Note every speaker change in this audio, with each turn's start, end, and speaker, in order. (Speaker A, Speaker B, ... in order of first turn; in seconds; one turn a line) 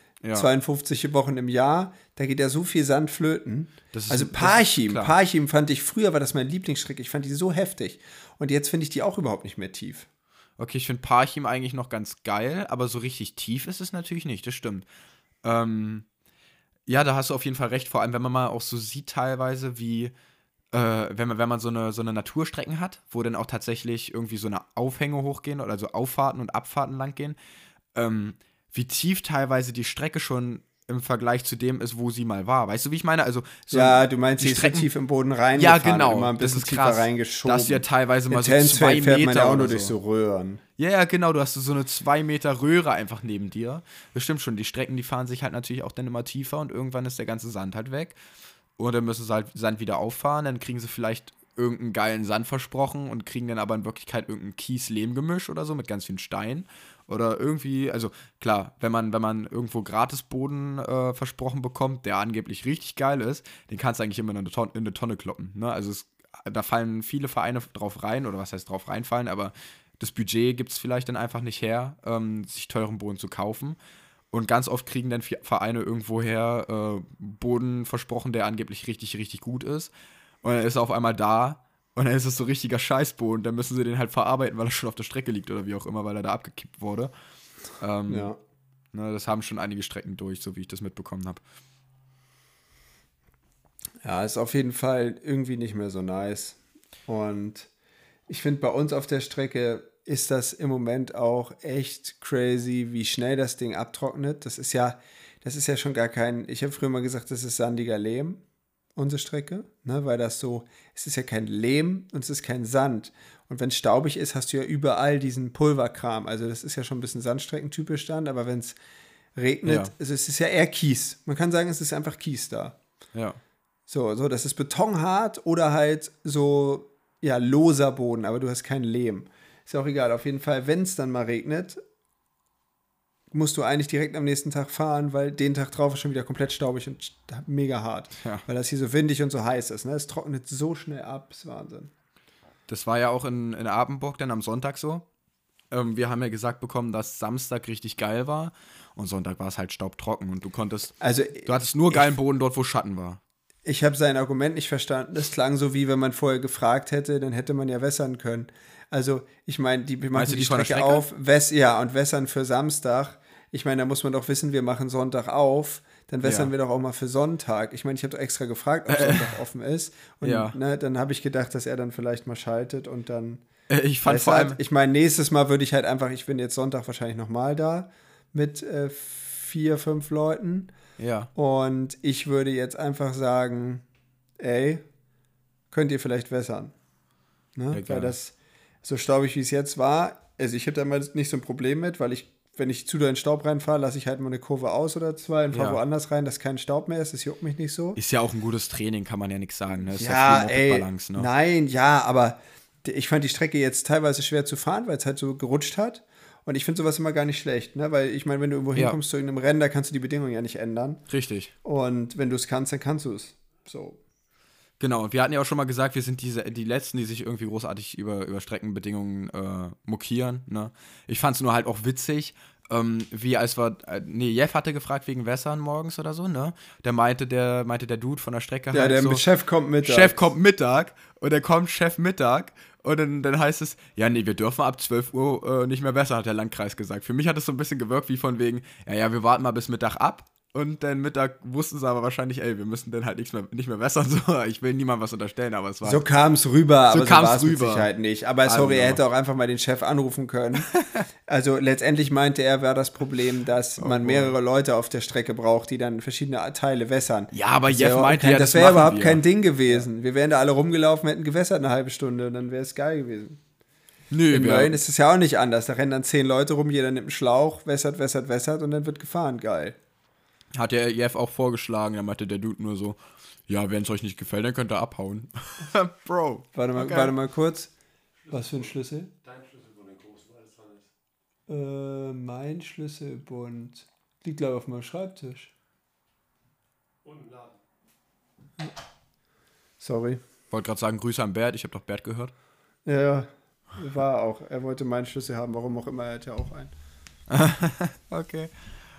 Speaker A: 0.2-0.5
Speaker B: 0.3-10.1
Speaker A: 3.9-5.1
Speaker A: 10.6-14.8
Speaker A: 15.4-16.1
Speaker A: 16.9-20.1
Speaker A: 20.7-27.4
Speaker A: 27.9-34.9
Speaker B: 33.7-40.6
Speaker A: 35.5-39.9
Speaker A: 40.8-48.2
Speaker A: 48.8-73.8
Speaker A: 74.3-79.9
Speaker A: 80.4-87.1
Speaker A: 87.8-88.3
Speaker B: 88.1-88.4
Speaker A: 88.9-91.4
Speaker B: 94.0-97.7
Speaker B: 98.3-108.4
Speaker B: 109.0-118.8
Speaker B: 119.3-122.8
Speaker A: 119.6-119.9
Speaker A: 123.1-123.4
Speaker B: 123.9-131.8
Speaker B: 133.3-141.9
Speaker A: 142.7-145.1
Speaker A: 145.7-153.2
Speaker B: 151.0-152.0
Speaker B: 153.6-173.4
Speaker A: 160.1-161.0
Speaker A: 166.2-166.5
Speaker A: 168.9-169.4
Speaker A: 170.2-170.6
Speaker A: 173.7-174.6
Speaker B: 174.0-180.7
Speaker A: 181.0-181.3
Speaker B: 181.3-183.8
Speaker B: 184.4-184.8
Speaker B: 185.7-186.7
Speaker B: 187.5-198.0
Speaker A: 187.7-188.1
Speaker A: 195.5-195.8
Speaker A: 197.9-201.3
Speaker B: 199.9-211.0
Speaker A: 211.1-211.5
Speaker B: 211.6-214.0
Speaker A: 214.8-229.2
Speaker B: 228.7-230.2
Speaker A: 229.8-246.0
Speaker B: 245.8-250.7
Speaker A: 246.9-247.9
Speaker A: 248.4-249.0
Speaker A: 250.7-251.0
Speaker B: 251.3-263.4
Speaker A: 253.8-254.3
Speaker A: 257.3-259.2
Speaker A: 264.1-264.8
Speaker B: 264.3-269.8
Speaker A: 270.6-277.1
Speaker B: 276.5-277.7
Speaker C: 278.2-278.7
Speaker B: 278.3-279.1
Speaker C: 279.2-280.9
Speaker B: 281.5-285.5
Speaker C: 287.0-287.5
Speaker B: 289.8-290.2
Speaker A: 290.5-292.3
Speaker B: 292.8-296.7
Speaker A: 297.3-298.5